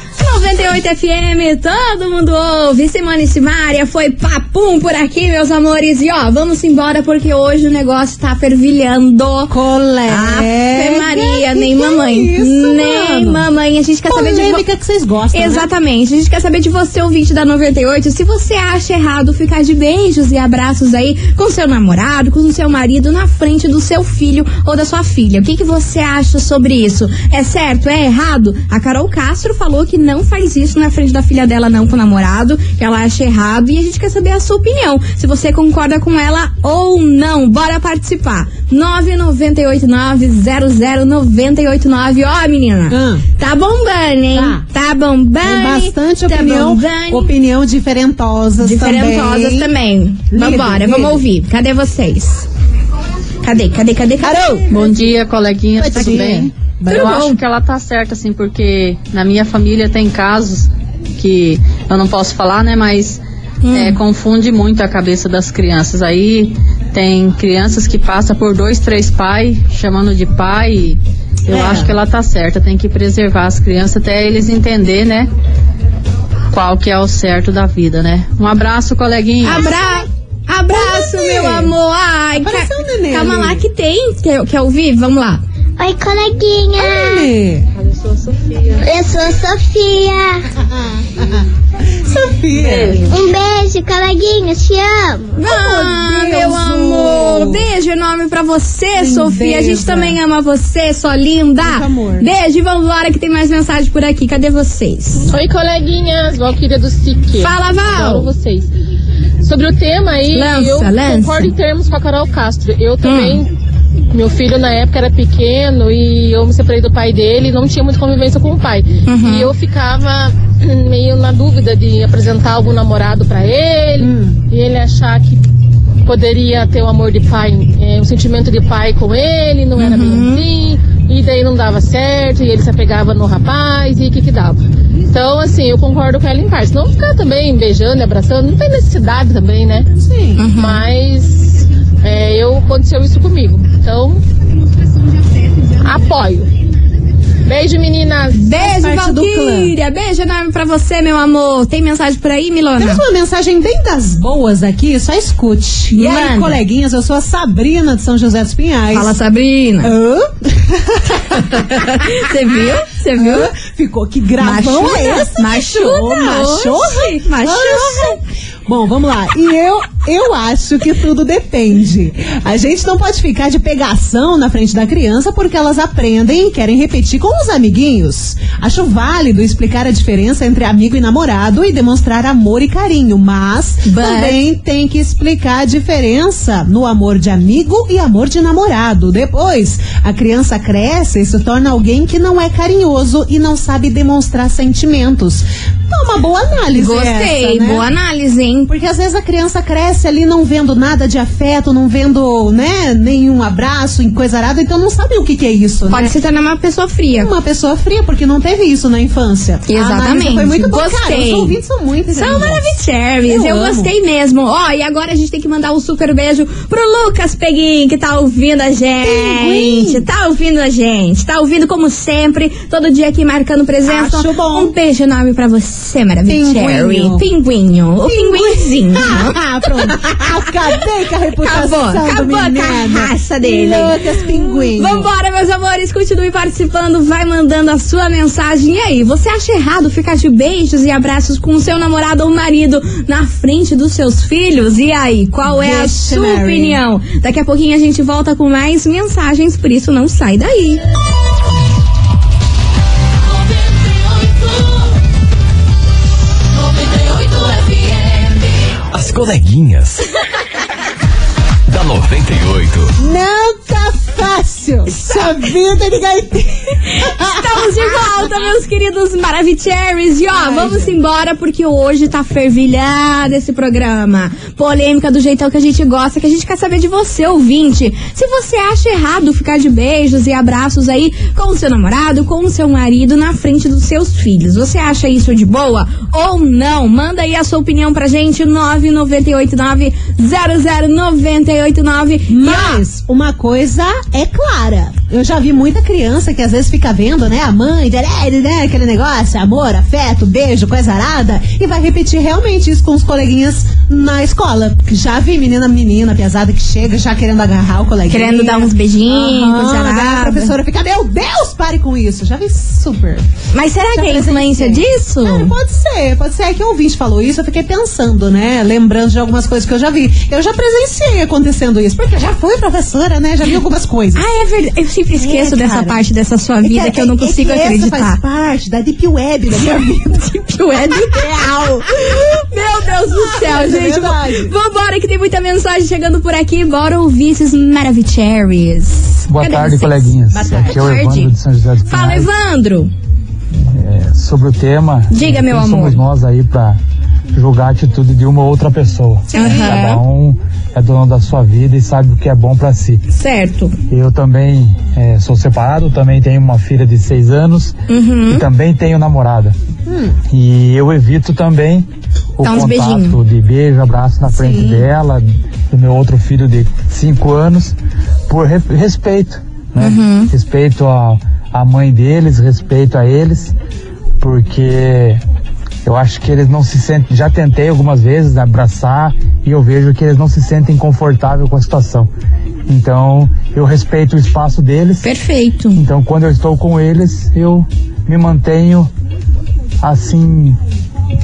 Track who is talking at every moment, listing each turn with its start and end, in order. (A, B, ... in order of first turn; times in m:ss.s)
0:00.2-0:09.5 A
0:09.5-0:13.4 B
0:10.1-0:14.6 A
0:14.1-0:15.6 B
0:15.3-0:47.3 A
0:42.9-0:43.2 B
0:44.3-0:44.6 B
0:45.4-0:49.7 B
0:48.6-0:52.5 A
0:50.3-0:51.2 B
0:53.4-0:54.6 A
0:54.2-0:54.8 B
0:54.7-1:03.2 C
0:55.8-0:57.3 B
0:56.9-0:57.4 A
1:03.6-1:04.0 A
1:03.7-1:15.3 C
1:11.5-1:11.9 B
1:16.5-1:19.7 C
1:19.4-1:25.4 A
1:19.5-1:20.0 B
1:20.7-1:21.7 B
1:22.4-1:23.6 B
1:25.8-1:27.3 D
1:26.8-1:27.7 B
1:27.9-1:28.5 E
1:28.8-1:30.4 D
1:30.6-1:31.4 B
1:32.0-1:33.1 B
1:32.5-1:32.9 C
1:33.0-1:35.3 D
1:35.3-1:45.3 A
1:35.4-1:37.6 B
1:39.0-1:40.2 B
1:41.6-1:42.2 B
1:45.3-1:48.7 E
1:47.4-1:48.3 A
1:49.4-1:53.5 E
1:50.3-1:51.5 A
1:53.0-1:53.4 A
1:54.1-2:05.4 E
1:59.0-1:59.5 A
2:04.0-2:04.4 B
2:06.0-2:19.9 E
2:09.8-2:10.5 A
2:20.0-2:20.4 B
2:20.4-2:20.8 A
2:20.5-2:24.2 E
2:25.8-2:26.5 E
2:27.4-2:28.4 E
2:28.3-2:33.0 A
2:28.5-2:29.7 B
2:32.8-2:39.1 B
2:35.9-2:36.6 A
2:38.9-2:39.9 A
2:39.8-2:42.1 B
2:41.9-2:43.5 A
2:43.2-3:17.8 B
2:44.4-2:48.2 A
3:03.8-3:04.4 A
3:16.7-3:18.7 A
3:18.7-3:26.1 B
3:25.9-3:27.3 A
3:27.2-3:32.7 B
3:29.7-3:31.5 A
3:32.1-3:49.4 A
3:33.2-3:33.9 B
3:39.0-3:40.0 B
3:43.9-3:44.7 B
3:46.3-3:47.2 B
3:48.0-3:55.1 B
3:51.4-4:10.8 A
4:05.4-4:06.8 B
4:18.9-4:20.0 F
4:21.7-4:23.0 F
4:23.0-4:27.8 B
4:24.9-4:25.3 A
4:27.0-4:52.8 A
4:30.3-4:30.9 B
4:52.3-5:13.2 B
5:08.1-5:10.5 A
5:13.5-5:15.5 A
5:13.9-5:24.2 B
5:24.2-5:28.2 A
5:25.1-5:26.0 B
5:26.6-5:30.2 B
5:29.6-5:41.3 A
5:32.0-5:34.5 B
5:39.3-5:42.3 G
5:40.3-5:40.9 B
5:41.9-5:42.9 A
5:43.6-5:46.8 G
5:45.1-5:46.0 A
5:47.3-5:53.0 G
5:49.3-5:50.0 A
5:49.4-5:49.7 B
5:53.1-5:53.8 A
5:53.9-5:57.7 G
5:57.9-5:58.4 A
5:58.3-5:59.5 G
5:59.9-6:00.2 B
6:00.3-6:01.8 G
6:02.4-6:07.7 G
6:02.4-6:03.2 A
6:04.3-6:04.9 B
6:08.3-6:13.5 G
6:09.8-6:10.3 A
6:14.2-6:15.2 G
6:15.8-6:22.1 G
6:22.7-6:25.1 G
6:25.0-6:25.8 A
6:25.7-6:28.9 G
6:29.8-6:30.6 G